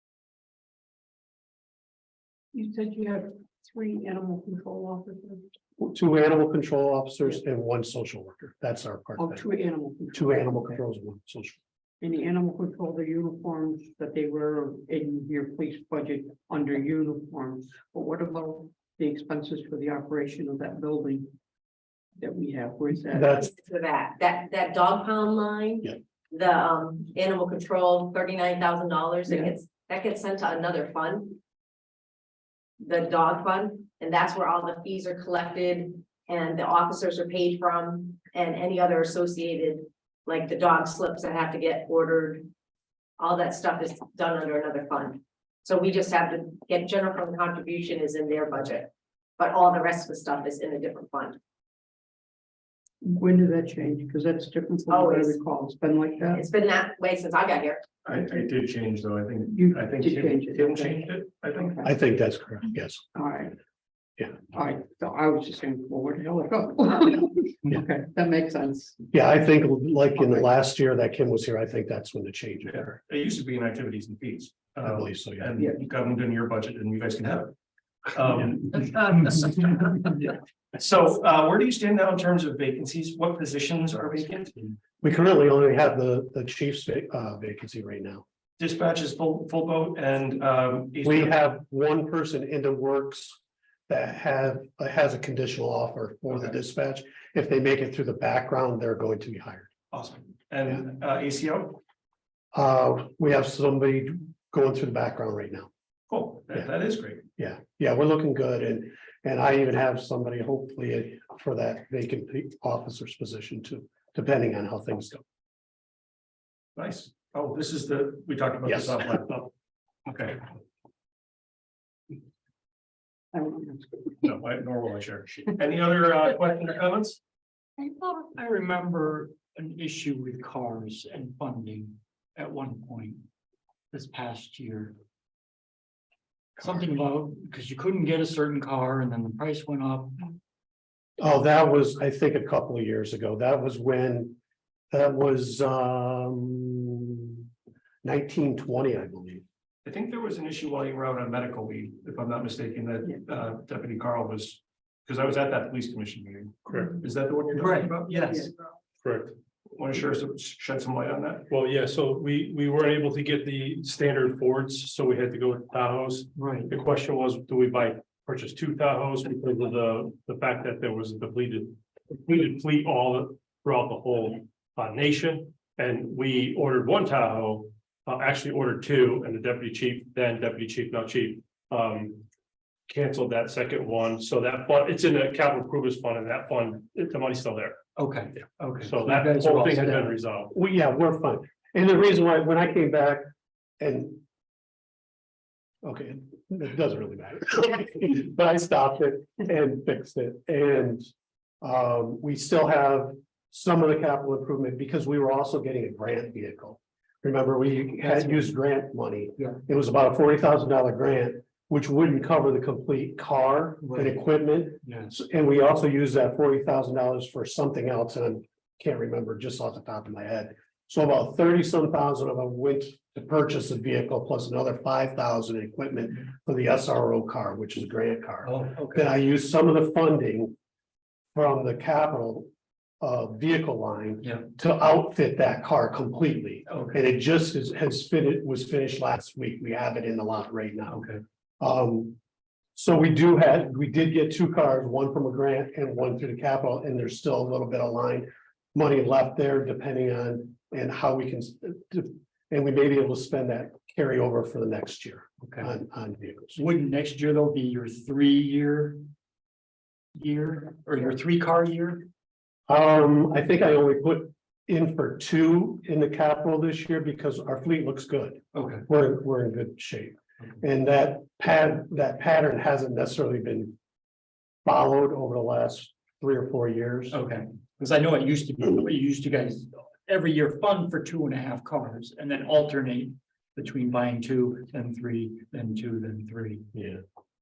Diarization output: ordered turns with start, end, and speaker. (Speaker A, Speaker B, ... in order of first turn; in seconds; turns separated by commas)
Speaker A: 2.5-5.5, Speaker B: 5.8-9.4, Speaker A: 9.2-10.7, Speaker B: 10.1-11.6, Speaker A: 12.0-21.3, Speaker A: 22.2-23.4, Speaker B: 23.1-23.5, Speaker C: 23.4-31.4, Speaker C: 32.8-42.5, Speaker C: 43.2-51.4, Speaker A: 53.0-56.5, Speaker C: 54.9-55.4, Speaker C: 56.2-57.8, Speaker D: 58.0-61.8, Speaker A: 59.5-61.9, Speaker B: 61.8-63.0, Speaker A: 63.1-63.5, Speaker A: 64.3-69.0, Speaker B: 69.1-73.0, Speaker D: 72.7-77.5, Speaker B: 74.8-75.5, Speaker D: 78.1-84.7, Speaker B: 85.0-88.2, Speaker D: 88.6-91.4, Speaker B: 91.0-99.7, Speaker D: 99.9-101.8, Speaker B: 102.5-105.7, Speaker D: 106.1-107.2, Speaker B: 107.4-115.2, Speaker D: 116.8-119.4, Speaker B: 118.7-119.1, Speaker D: 120.0-120.4, Speaker A: 123.3-124.2, Speaker D: 124.2-127.2, Speaker A: 127.8-131.8, Speaker E: 128.1-131.8, Speaker A: 132.4-133.0, Speaker E: 132.4-133.1, Speaker A: 133.9-134.7, Speaker E: 134.0-134.8, Speaker A: 136.6-140.1, Speaker E: 137.1-140.0, Speaker B: 141.2-144.4, Speaker B: 144.9-147.4, Speaker B: 148.0-149.4, Speaker D: 149.8-158.5, Speaker F: 156.7-157.0, Speaker A: 157.5-158.5, Speaker F: 159.0-159.3, Speaker D: 159.8-161.5, Speaker F: 161.5-182.2, Speaker F: 182.9-187.8, Speaker A: 188.0-190.1, Speaker F: 188.8-190.5, Speaker B: 190.5-194.2, Speaker B: 195.8-201.1, Speaker B: 201.6-230.5, Speaker A: 208.1-208.5, Speaker A: 228.5-229.1, Speaker B: 231.3-232.5, Speaker B: 233.0-241.1, Speaker B: 241.6-242.2, Speaker B: 242.7-256.6, Speaker A: 256.6-258.9, Speaker A: 260.2-262.0, Speaker B: 262.7-273.8, Speaker B: 274.6-277.2, Speaker E: 277.2-279.5, Speaker A: 277.8-279.6, Speaker A: 280.1-283.0, Speaker E: 280.1-283.1, Speaker A: 283.6-286.4, Speaker E: 283.6-286.6, Speaker B: 286.7-287.0